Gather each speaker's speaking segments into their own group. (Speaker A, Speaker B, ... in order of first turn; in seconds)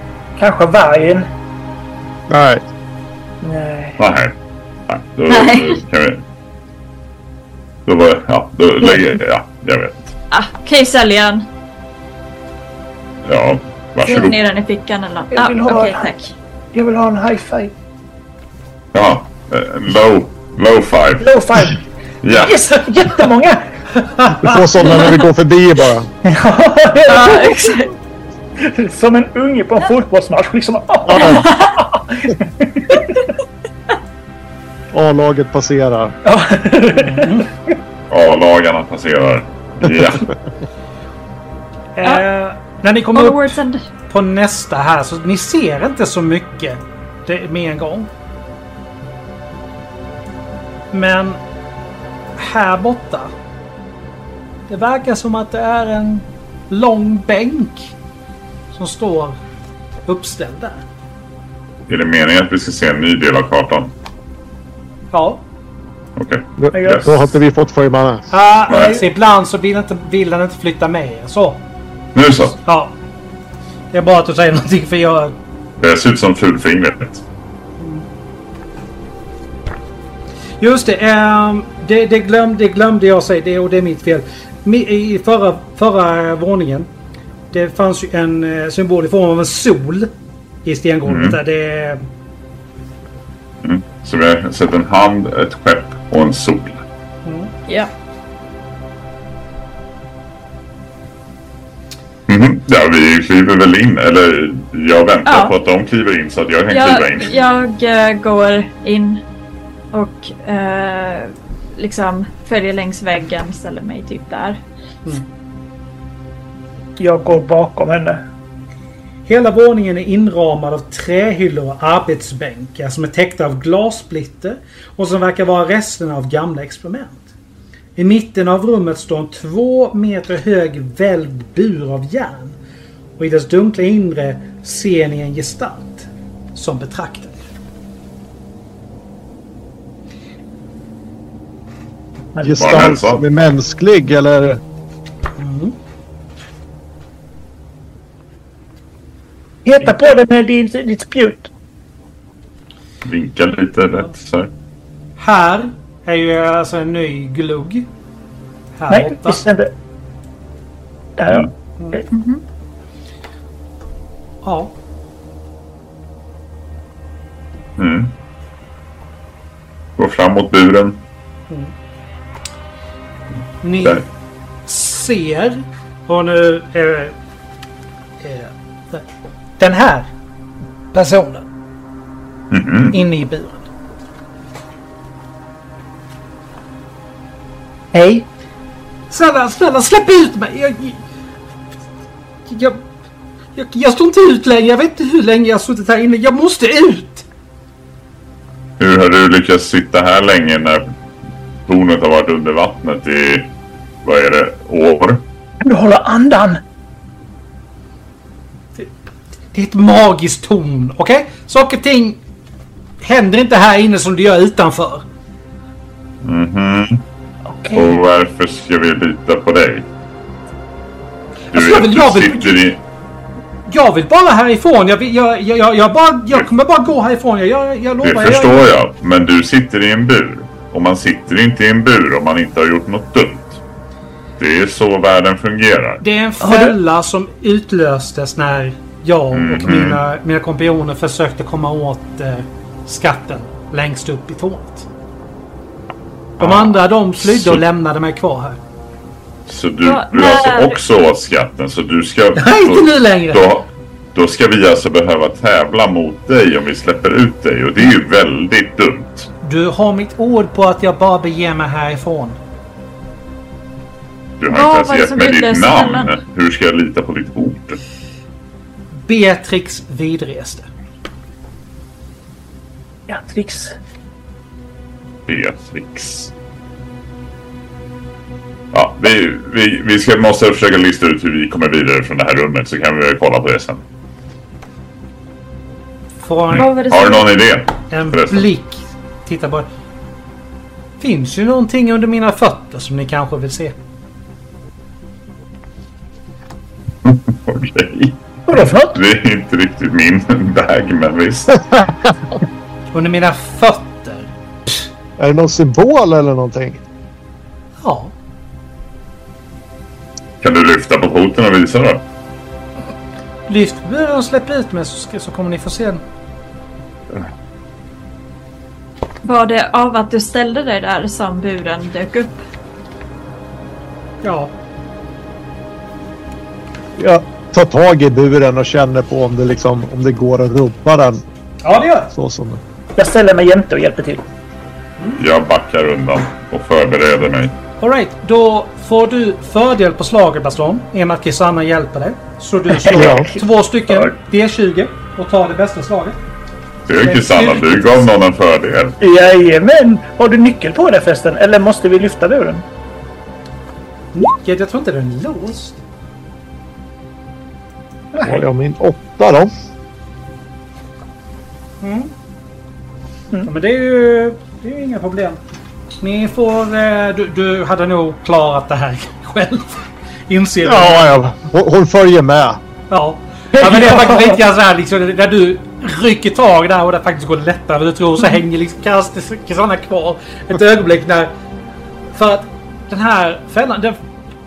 Speaker A: 0.4-1.3, 3.4-4.0, 15.3-16.1, 16.7-17.7, 21.2-23.6, 26.2-27.8, 28.6-33.3, 36.2-37.4, 66.7-67.2, 68.7-69.0, 117.0-118.2, 142.3-142.9, 149.6-151.5, 158.9-159.7, 161.2-162.0, 187.9-188.3, 205.6-206.6, 217.5-217.9, 236.4-236.7, 273.1-273.8, 298.5-298.9, 332.9-334.2, 342.9-344.1, 349.0-352.6, 358.1-358.4, 373.6-374.4
Speaker B: 2.3-2.6, 24.4-26.1, 31.1-31.4, 34.9-36.1, 66.6-68.3, 142.4-144.6, 305.2-306.8, 327.0-331.2, 332.1-332.6, 342.9-343.3, 358.2-359.5, 370.6-372.6
Speaker C: 4.0-4.3, 4.9-6.2, 7.8-10.1, 13.2-14.4, 18.9-21.4, 22.2-22.7, 38.1-40.3, 61.9-63.9, 66.2-67.1, 68.7-69.0, 72.1-72.5, 75.8-77.2, 91.0-91.4, 93.6-96.8, 102.3-107.4, 142.5-143.2, 153.0-154.5, 167.8-168.1, 170.0-171.0, 182.5-183.0, 198.8-200.9, 201.7-203.5, 204.0-205.2, 216.2-217.0, 217.7-219.9, 221.5-222.8, 228.0-233.6, 234.4-236.0, 239.3-240.0, 246.4-247.6, 249.5-259.3, 264.4-267.8, 275.2-276.3, 278.7-283.8, 286.5-288.5, 297.0-301.8, 310.4-312.0, 335.2-337.5, 346.9-349.0
Speaker D: 5.3-5.8, 10.3-11.4, 14.0-16.3, 24.9-25.2, 27.1-27.9, 31.2-31.8, 43.1-43.8, 105.2-105.5, 106.7-109.2, 109.9-114.6, 162.1-162.4, 249.8-250.8, 264.5-266.1, 286.5-287.2, 319.2-322.4
Speaker E: 24.0-24.6, 37.0-37.5, 41.9-48.1, 50.9-51.4, 52.4-53.3, 54.7-57.9, 58.7-59.4, 60.1-60.8, 65.1-65.4, 68.3-71.6, 72.6-73.0, 73.9-75.3, 77.8-78.0, 80.6-86.9, 87.5-90.1, 90.6-92.0, 97.2-97.5, 119.3-127.3, 128.0-132.6, 133.2-137.4, 145.4-145.8, 155.2-157.9, 158.8-159.4, 164.4-164.7, 173.6-174.1, 174.7-177.1, 178.2-179.0, 179.6-180.1, 180.9-181.4, 182.9-183.7, 189.1-191.0, 192.5-192.8, 193.6-197.3, 209.5-212.2, 213.0-215.0, 221.5-222.7, 223.7-228.7, 236.0-244.9, 246.4-248.6, 252.3-253.5, 259.4-262.4, 269.1-270.7, 286.2-286.7, 287.9-289.7, 291.0-293.8, 302.9-304.9, 307.8-308.1, 313.5-316.0, 324.2-324.5, 331.6-332.1, 337.8-346.2, 347.0-348.1, 354.1-355.8, 361.8-362.1, 363.4-365.4, 366.0-371.3, 372.9-381.3, 382.1-384.0